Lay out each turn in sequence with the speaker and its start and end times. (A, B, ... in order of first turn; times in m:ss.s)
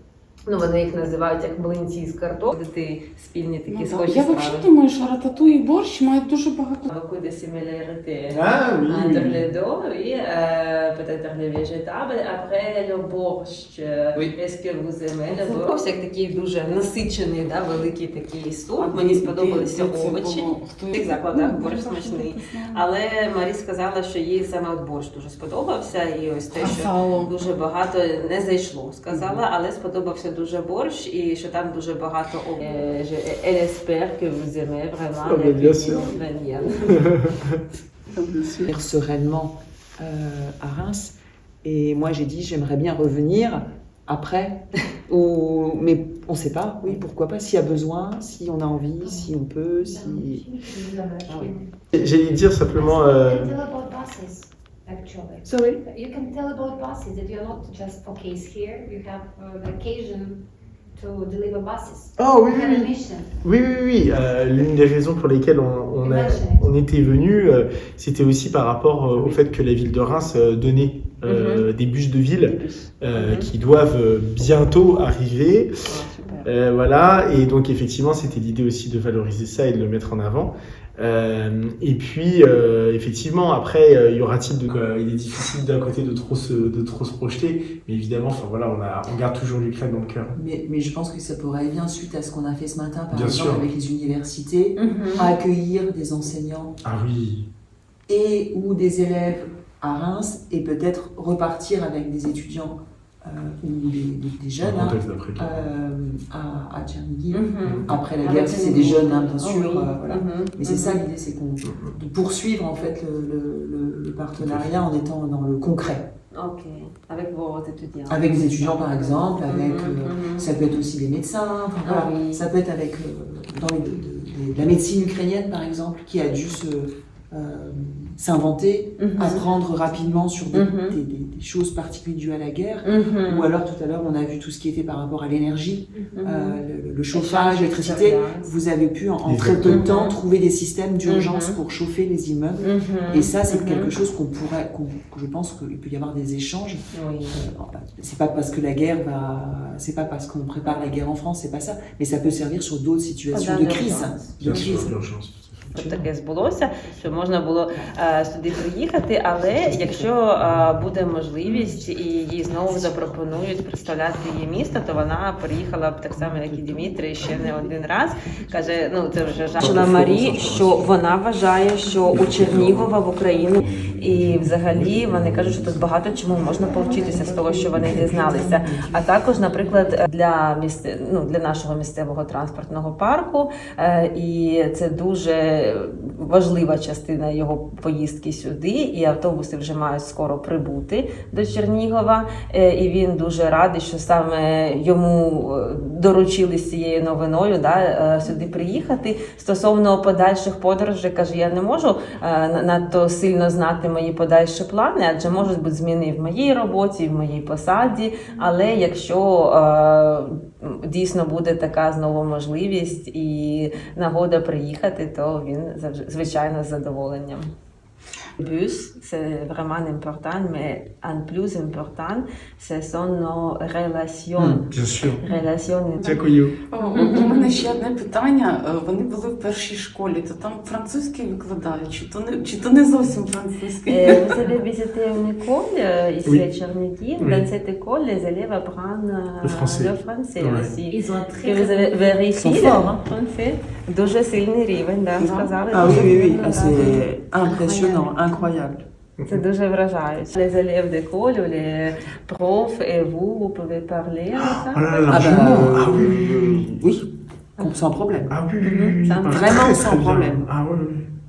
0:00.5-0:04.7 A
0:03.7-0:06.9 B
0:06.9-0:37.1 A
0:08.3-0:09.4 C
0:18.8-0:22.8 B
0:26.6-0:27.3 B
0:35.2-0:36.2 C
0:36.9-0:37.6 C
0:38.1-0:38.7 B
0:38.7-0:50.5 D
0:49.0-0:49.3 E
0:49.8-0:51.7 E
0:51.3-0:51.5 A
0:51.9-0:53.6 C
0:52.7-1:00.4 E
0:55.4-0:55.8 D
1:01.0-1:03.3 E
1:02.2-1:15.7 C
1:06.0-1:06.7 E
1:11.2-1:11.7 A
1:12.4-1:13.5 A
1:15.9-1:16.5 A
1:16.4-1:30.3 C
1:30.4-1:36.8 D
1:33.1-1:33.7 C
1:34.8-1:35.3 A
1:34.9-1:35.2 B
1:36.8-1:37.5 C
1:38.1-1:56.1 D
1:44.6-1:45.6 C
1:47.3-1:51.0 A
1:47.6-1:47.9 C
1:51.6-1:52.0 C
1:54.4-1:54.7 C
1:56.3-2:00.5 A
1:58.1-2:26.8 D
2:01.8-2:02.5 A
2:09.0-2:09.4 A
2:10.5-2:11.0 A
2:12.8-2:13.5 A
2:16.0-2:16.6 A
2:17.1-2:18.5 A
2:19.2-2:19.8 C
2:19.6-2:20.2 A
2:21.1-2:21.6 A
2:22.6-2:23.9 A
2:26.9-2:27.4 A
2:27.3-2:34.9 D
2:33.3-2:34.7 A
2:34.4-2:36.0 C
2:35.7-3:37.5 A
2:39.7-2:40.1 D
2:49.6-2:50.9 C
2:52.1-2:52.9 C
2:54.6-2:55.8 C
2:56.7-2:59.5 D
3:38.4-3:44.6 A
3:44.4-3:44.6 D
3:44.7-3:45.2 C
3:45.2-3:46.1 A
3:46.0-3:54.4 B
3:46.0-3:46.6 C
3:46.8-3:47.6 A
3:53.9-4:07.0 A
3:57.2-3:57.5 C
3:59.4-4:00.8 C
4:00.9-4:01.9 E
4:02.3-4:03.0 D
4:05.2-4:05.6 B
4:05.7-4:08.8 D
4:05.8-4:06.1 C
4:07.4-4:08.2 E
4:09.3-4:15.6 A
4:14.4-4:17.0 C
4:15.1-4:17.1 D
4:17.6-4:18.3 D
4:18.3-4:21.1 C
4:18.6-4:19.7 A
4:19.3-4:20.5 D